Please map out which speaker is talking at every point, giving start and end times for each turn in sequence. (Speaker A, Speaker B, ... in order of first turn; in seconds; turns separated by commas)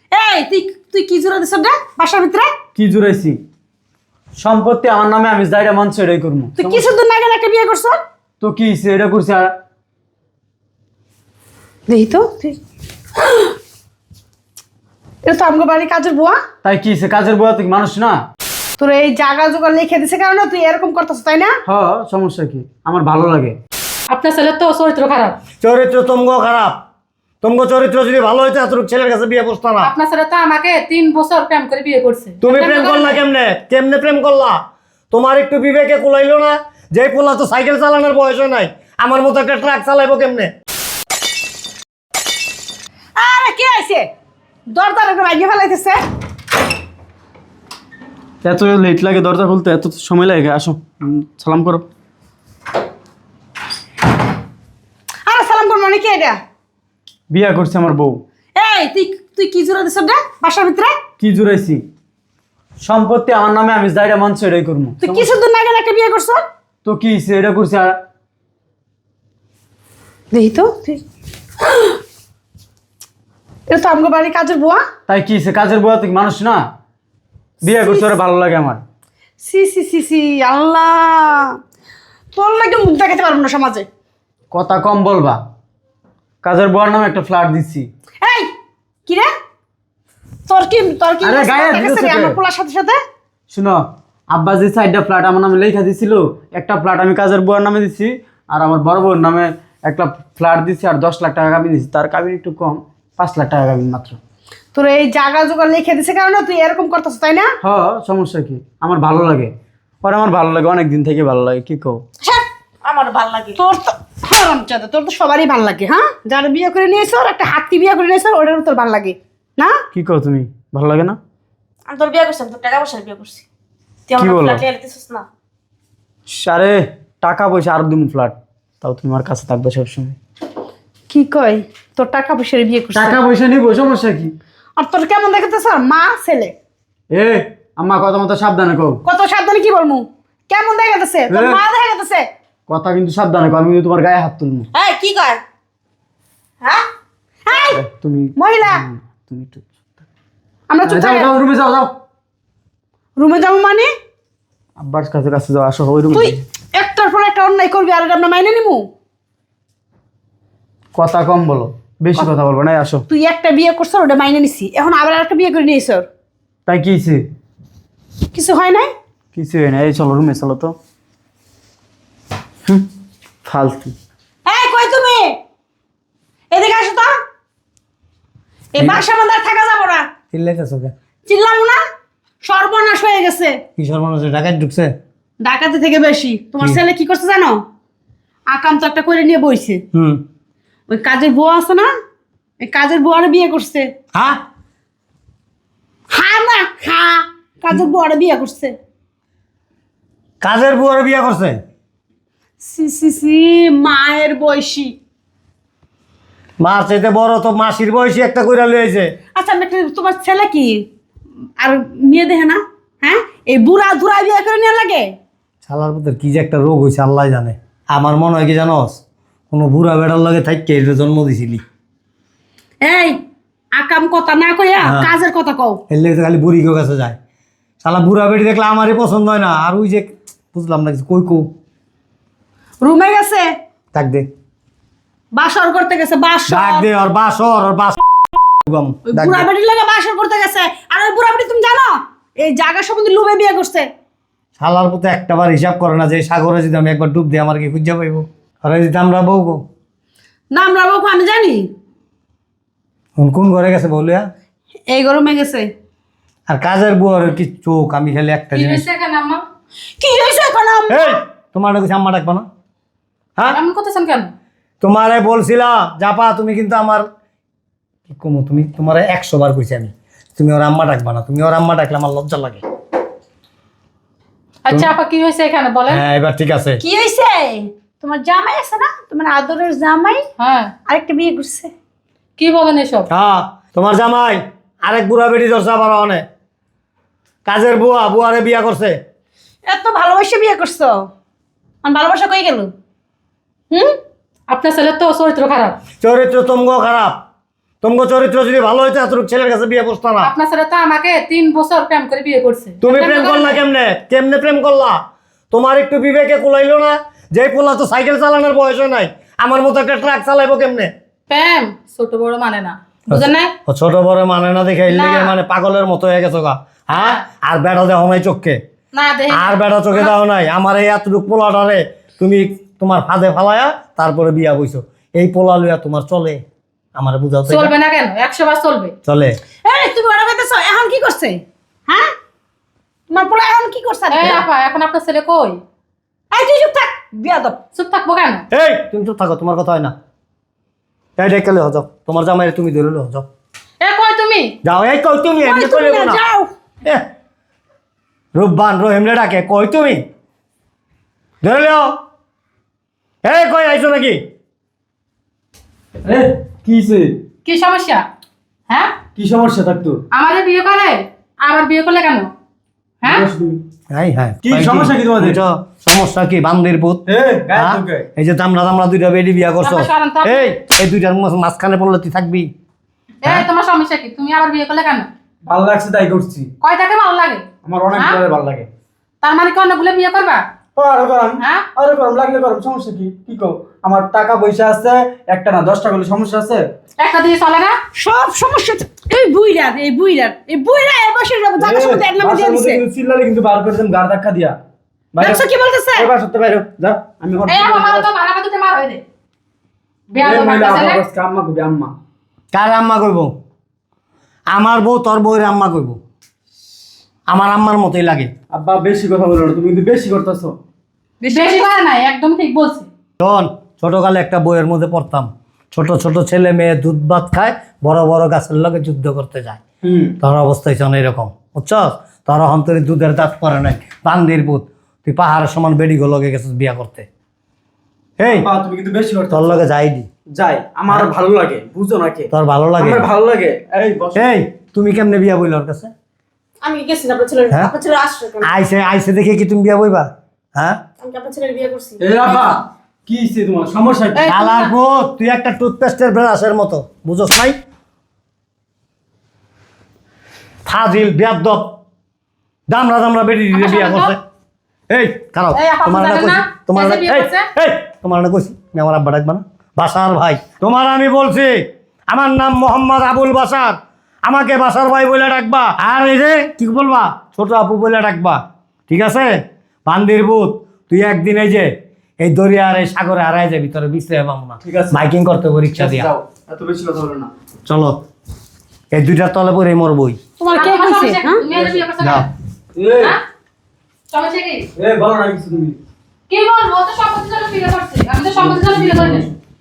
Speaker A: 0.1-2.5, Speaker B: 2.8-3.4, Speaker B: 4.4-6.9, Speaker A: 6.6-8.0, Speaker B: 8.4-9.5, Speaker A: 11.9-12.6, Speaker A: 15.2-16.4, Speaker B: 16.6-18.2, Speaker A: 18.8-21.5, Speaker B: 21.6-23.6, Speaker C: 24.1-25.4, Speaker D: 25.6-26.8, Speaker D: 27.4-29.9, Speaker C: 29.8-33.2, Speaker D: 32.4-34.6, Speaker D: 35.1-40.5, Speaker A: 43.2-44.0, Speaker A: 44.7-46.0, Speaker B: 48.4-51.8, Speaker A: 55.2-56.4, Speaker B: 57.3-58.2, Speaker A: 58.5-61.0, Speaker B: 61.2-61.8, Speaker B: 62.8-65.3, Speaker A: 65.0-66.4, Speaker B: 66.8-68.0, Speaker A: 70.3-71.0, Speaker A: 73.7-74.8, Speaker B: 75.1-76.6, Speaker A: 77.6-78.1, Speaker B: 77.6-78.8, Speaker A: 79.4-81.5, Speaker A: 82.3-83.9, Speaker B: 84.5-85.4, Speaker B: 86.4-87.9, Speaker A: 88.2-88.5, Speaker A: 90.5-93.0, Speaker B: 91.2-92.4, Speaker B: 93.5-104.2, Speaker A: 104.7-107.5, Speaker B: 107.6-112.0, Speaker E: 112.8-113.6, Speaker A: 113.5-119.8, Speaker B: 119.9-121.2, Speaker E: 121.9-123.4, Speaker E: 124.1-125.2, Speaker B: 124.2-124.6, Speaker B: 126.3-130.2, Speaker A: 131.1-133.2, Speaker B: 132.9-134.3, Speaker A: 134.8-136.5, Speaker B: 137.1-139.0, Speaker A: 139.0-142.3, Speaker B: 141.3-141.6, Speaker B: 142.7-144.7, Speaker E: 144.8-145.4, Speaker A: 147.4-147.8, Speaker B: 147.5-150.0, Speaker A: 148.4-148.8, Speaker A: 150.7-151.3, Speaker B: 150.8-151.9, Speaker A: 153.2-153.9, Speaker B: 154.8-156.4, Speaker A: 156.1-158.8, Speaker B: 160.9-163.1, Speaker A: 163.1-166.1, Speaker B: 166.7-167.2, Speaker A: 168.3-168.9, Speaker B: 169.3-170.7, Speaker B: 173.4-173.9, Speaker A: 174.4-175.4, Speaker A: 176.5-177.1, Speaker A: 178.7-180.1, Speaker D: 178.8-179.0, Speaker D: 180.3-180.9, Speaker A: 181.2-181.8, Speaker A: 182.4-183.6, Speaker D: 183.8-184.9, Speaker A: 185.4-187.6, Speaker A: 188.5-189.8, Speaker D: 189.9-190.2, Speaker A: 190.9-191.9, Speaker A: 192.6-193.9, Speaker D: 194.1-194.4, Speaker A: 196.1-198.8, Speaker D: 200.4-201.6, Speaker A: 202.6-204.9, Speaker D: 206.6-209.1, Speaker A: 209.3-210.8, Speaker A: 211.6-215.1, Speaker D: 215.7-221.6, Speaker A: 222.8-223.2, Speaker A: 223.7-225.8, Speaker D: 224.8-225.1, Speaker D: 225.9-227.2, Speaker D: 227.8-231.5, Speaker A: 232.8-233.5, Speaker D: 233.9-234.3, Speaker A: 235.3-236.8, Speaker D: 236.5-238.0, Speaker D: 238.6-239.5, Speaker A: 239.1-243.9, Speaker D: 244.6-249.6, Speaker A: 250.5-251.7, Speaker D: 253.2-254.3, Speaker A: 254.9-255.7, Speaker D: 256.5-258.9, Speaker C: 258.5-259.4, Speaker A: 260.0-261.2, Speaker D: 260.9-262.4, Speaker C: 263.5-264.3, Speaker D: 264.8-267.0, Speaker D: 268.1-272.6, Speaker C: 274.6-276.0, Speaker D: 275.9-276.8, Speaker A: 276.8-280.2, Speaker C: 280.4-280.7, Speaker A: 280.9-281.7, Speaker C: 282.4-283.1, Speaker D: 283.1-286.2, Speaker D: 287.4-289.0, Speaker A: 289.6-291.1, Speaker A: 291.8-292.7, Speaker A: 293.7-293.9, Speaker C: 294.5-295.8, Speaker D: 296.0-297.2, Speaker D: 297.8-300.3, Speaker C: 300.2-303.6, Speaker D: 302.8-305.0, Speaker D: 305.5-310.9, Speaker C: 311.3-313.5, Speaker D: 313.1-318.6, Speaker C: 314.9-315.3, Speaker C: 316.9-317.2, Speaker C: 318.9-320.1, Speaker D: 319.3-326.4, Speaker D: 326.9-327.7, Speaker C: 327.5-328.9, Speaker D: 329.0-329.4, Speaker A: 329.6-332.1, Speaker A: 333.1-334.4, Speaker C: 334.1-335.6, Speaker A: 336.3-337.6, Speaker C: 337.8-338.4, Speaker D: 338.5-339.9, Speaker D: 341.2-343.2, Speaker C: 343.8-344.5, Speaker D: 344.6-346.2, Speaker A: 345.4-346.5, Speaker D: 348.3-350.0, Speaker D: 351.4-352.0, Speaker D: 353.2-354.2, Speaker B: 356.0-357.2, Speaker C: 357.4-358.0, Speaker B: 359.1-360.0, Speaker C: 360.1-362.3, Speaker B: 363.0-363.6, Speaker D: 363.9-372.5, Speaker B: 364.4-365.4, Speaker B: 367.1-368.1, Speaker C: 369.6-370.5, Speaker C: 373.2-375.1, Speaker B: 375.5-376.5, Speaker C: 376.6-378.2, Speaker B: 377.6-378.7, Speaker C: 379.2-380.4, Speaker B: 380.8-386.6, Speaker C: 387.0-387.8, Speaker A: 387.9-392.8, Speaker B: 391.6-394.6, Speaker B: 395.1-398.1, Speaker A: 395.2-396.1, Speaker C: 397.5-399.0, Speaker C: 400.1-401.0, Speaker B: 400.2-401.9, Speaker D: 402.5-403.3, Speaker D: 404.5-406.0, Speaker D: 407.3-408.3, Speaker B: 408.5-410.6, Speaker A: 411.2-411.7, Speaker C: 411.3-412.9, Speaker D: 413.2-419.6, Speaker B: 419.8-420.2, Speaker D: 420.2-427.1, Speaker D: 428.2-428.4, Speaker B: 428.2-429.6, Speaker D: 429.3-430.1, Speaker B: 430.3-434.2, Speaker D: 432.3-433.1, Speaker D: 434.1-435.9, Speaker E: 436.6-438.5, Speaker D: 438.4-440.8, Speaker E: 441.0-442.0, Speaker B: 442.0-444.3, Speaker C: 444.2-444.7, Speaker D: 444.3-447.6, Speaker D: 450.6-451.7, Speaker D: 452.7-454.2, Speaker C: 453.5-454.1, Speaker D: 454.9-476.1, Speaker C: 455.5-457.5, Speaker B: 474.6-475.0, Speaker B: 475.7-477.3, Speaker D: 477.6-478.0, Speaker D: 478.9-480.2, Speaker A: 480.4-481.4, Speaker C: 480.5-482.3, Speaker B: 481.5-481.8, Speaker D: 482.0-482.3, Speaker B: 482.8-483.1, Speaker C: 484.1-484.7, Speaker B: 484.7-485.8, Speaker C: 486.3-489.3, Speaker B: 488.4-489.2